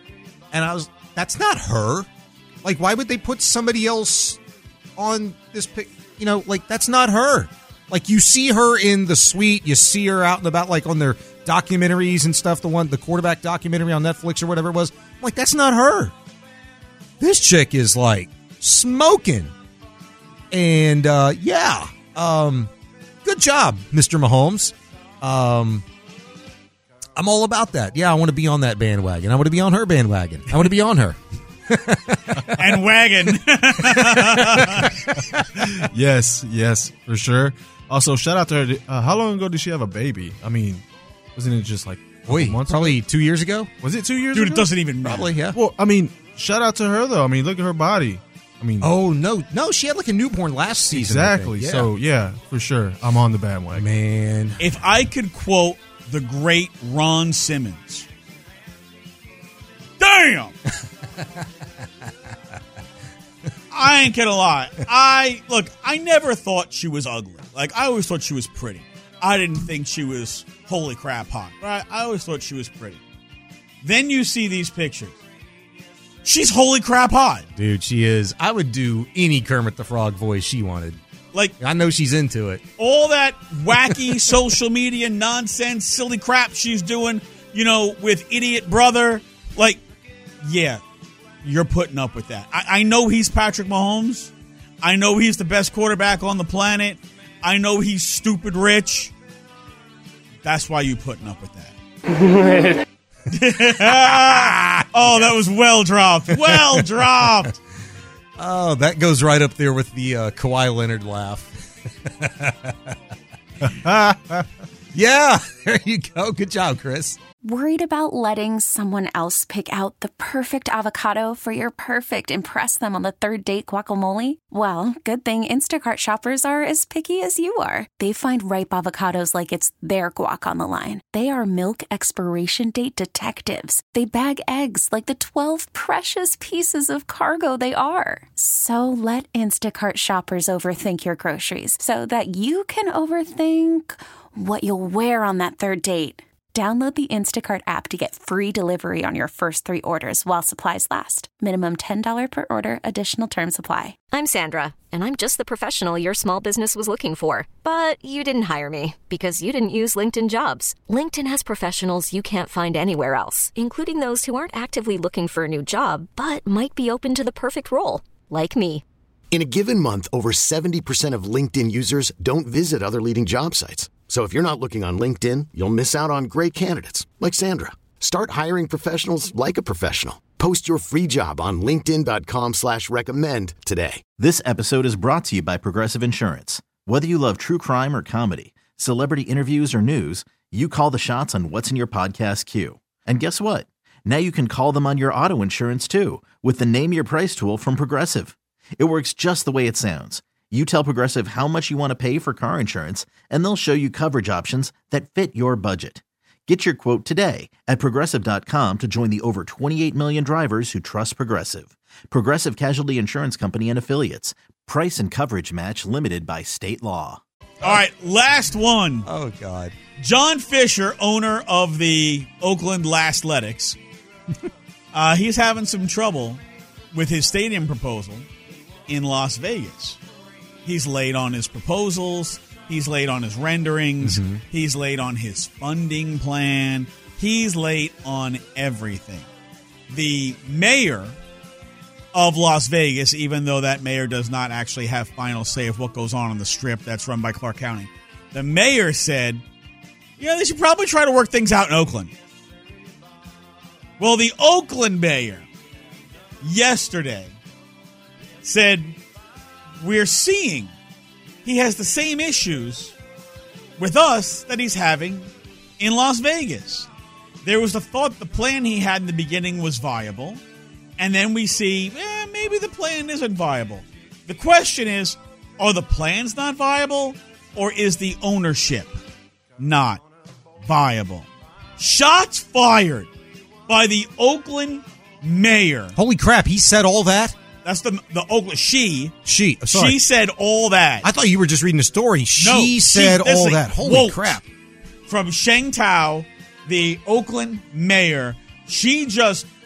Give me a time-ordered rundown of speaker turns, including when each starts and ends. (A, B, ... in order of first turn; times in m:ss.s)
0:00.5-0:02.1 A
0:02.6-0:04.4 A
0:05.0-0:16.1 A
0:17.2-0:19.5 A
0:20.5-0:22.7 A
0:23.2-0:25.8 A
0:27.2-0:31.2 A
0:31.7-0:32.7 A
0:32.6-0:34.8 B
0:34.5-0:43.0 C
0:42.3-0:43.7 A
0:43.8-0:44.9 C
0:44.3-0:45.4 B
0:45.0-0:45.6 A
0:45.5-0:48.9 C
0:48.8-0:51.9 A
0:50.9-0:53.9 C
0:53.7-0:54.6 A
0:54.6-0:58.1 B
1:00.0-1:00.5 B
1:03.7-1:13.0 B
1:13.8-1:15.2 B
1:16.2-1:17.5 B
1:17.6-1:21.0 A
1:21.6-1:22.6 A
1:22.8-1:29.8 B
1:23.8-1:24.0 A
1:30.4-1:30.8 B
1:31.4-1:39.1 B
1:40.4-1:41.8 B
1:43.3-1:47.5 B
1:43.9-1:44.8 A
1:46.3-1:47.5 A
1:48.4-1:52.9 A
1:53.7-1:57.2 A
1:57.4-2:34.0 D
2:34.1-2:48.8 E
2:49.3-3:04.0 F
3:04.2-3:37.2 G
3:37.6-3:39.1 B
3:39.1-3:39.8 A
3:40.0-3:43.8 B
3:44.9-3:48.3 B
3:48.9-3:50.0 B
3:50.6-3:59.3 B
3:54.0-3:54.4 A
3:59.9-4:01.2 B
4:02.1-4:09.4 B
4:10.2-4:12.1 B
4:14.0-4:15.5 B
4:16.4-4:17.4 B
4:18.4-4:19.0 B
4:19.8-4:20.7 B
4:21.4-4:23.0 B
4:23.8-4:26.9 B
4:27.4-4:30.4 B
4:31.0-4:39.0 B
4:39.6-4:40.0 B
4:40.6-4:43.1 B
4:43.7-4:46.0 B
4:45.9-4:47.4 A
4:47.6-4:49.1 B
4:49.2-4:50.0 A
4:49.7-4:51.1 B
4:51.0-4:54.4 A
4:52.4-4:54.4 B
4:55.1-4:59.5 B